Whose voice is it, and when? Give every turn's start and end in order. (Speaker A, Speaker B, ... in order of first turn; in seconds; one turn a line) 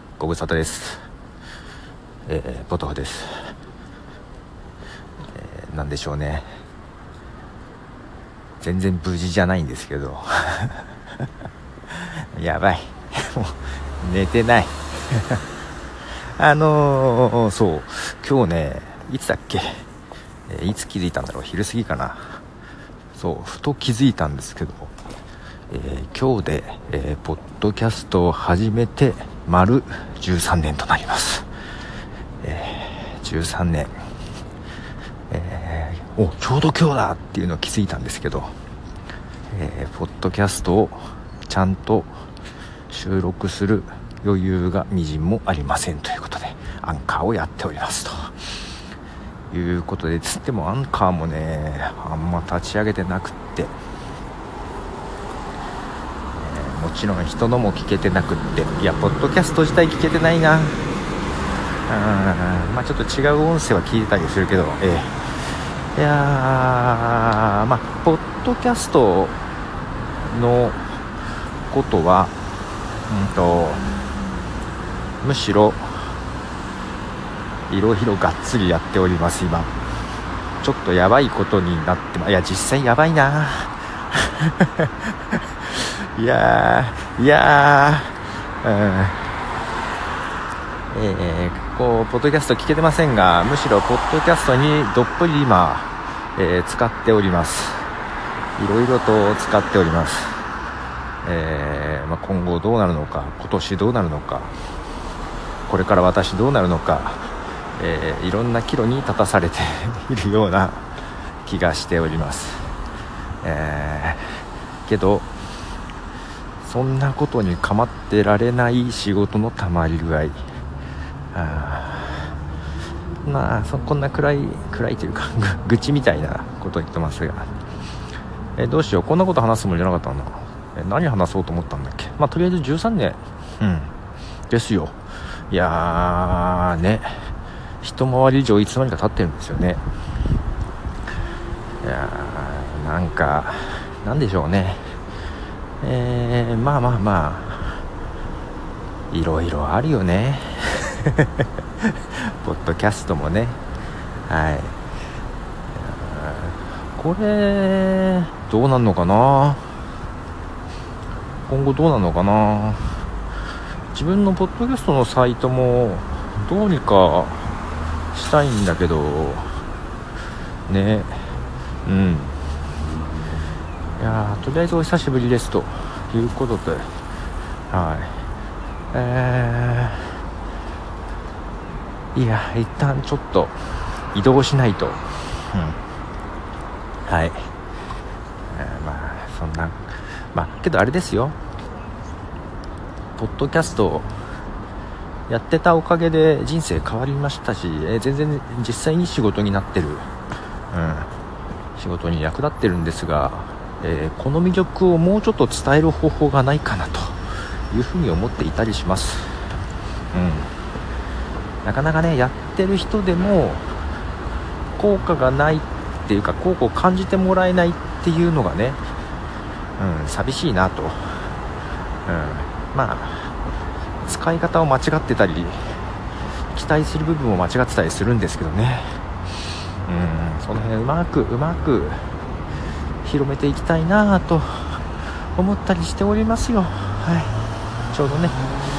Speaker A: 0.2-1.1
Speaker A: 2.3-3.5
Speaker A: 5.3-6.5
Speaker A: 8.6-10.9
Speaker A: 11.9-15.4
Speaker A: 16.2-19.9
Speaker A: 20.5-22.4
Speaker A: 23.1-24.9
Speaker A: 25.7-31.5
Speaker A: 32.4-33.9
Speaker A: 35.3-38.5
Speaker A: 39.5-42.1
Speaker A: 42.9-48.5
Speaker A: 49.5-53.8
Speaker A: 56.3-60.9
Speaker A: 61.9-69.4
Speaker A: 70.2-71.0
Speaker A: 71.7-72.3
Speaker A: 73.1-73.8
Speaker A: 75.2-76.2
Speaker A: 77.7-79.7
Speaker A: 80.6-89.3
Speaker A: 90.9-97.9
Speaker A: 98.6-100.5
Speaker A: 101.2-104.5
Speaker A: 105.7-110.8
Speaker A: 111.4-112.7
Speaker A: 113.4-115.3
Speaker A: 116.6-120.4
Speaker A: 121.3-122.4
Speaker A: 123.2-127.5
Speaker A: 128.6-133.9
Speaker A: 134.5-135.0
Speaker A: 135.5-139.8
Speaker A: 141.8-145.0
Speaker A: 145.8-147.8
Speaker A: 149.1-153.6
Speaker A: 154.3-154.8
Speaker A: 155.7-159.8
Speaker A: 161.5-163.0
Speaker A: 163.9-167.5
Speaker A: 168.1-169.5
Speaker A: 170.7-172.3
Speaker A: 174.0-176.9
Speaker A: 177.7-178.2
Speaker A: 178.9-180.2
Speaker A: 182.1-183.6
Speaker A: 184.1-185.8
Speaker A: 187.1-187.5
Speaker A: 188.5-191.4
Speaker A: 193.2-194.1
Speaker A: 195.3-200.1
Speaker A: 200.7-201.1
Speaker A: 201.8-209.4
Speaker A: 210.1-210.5
Speaker A: 211.6-213.8
Speaker A: 214.8-218.8
Speaker A: 219.8-221.4
Speaker A: 222.1-223.3
Speaker A: 224.0-225.8
Speaker A: 226.5-229.0
Speaker A: 229.8-232.2
Speaker A: 233.0-237.3
Speaker A: 237.9-238.4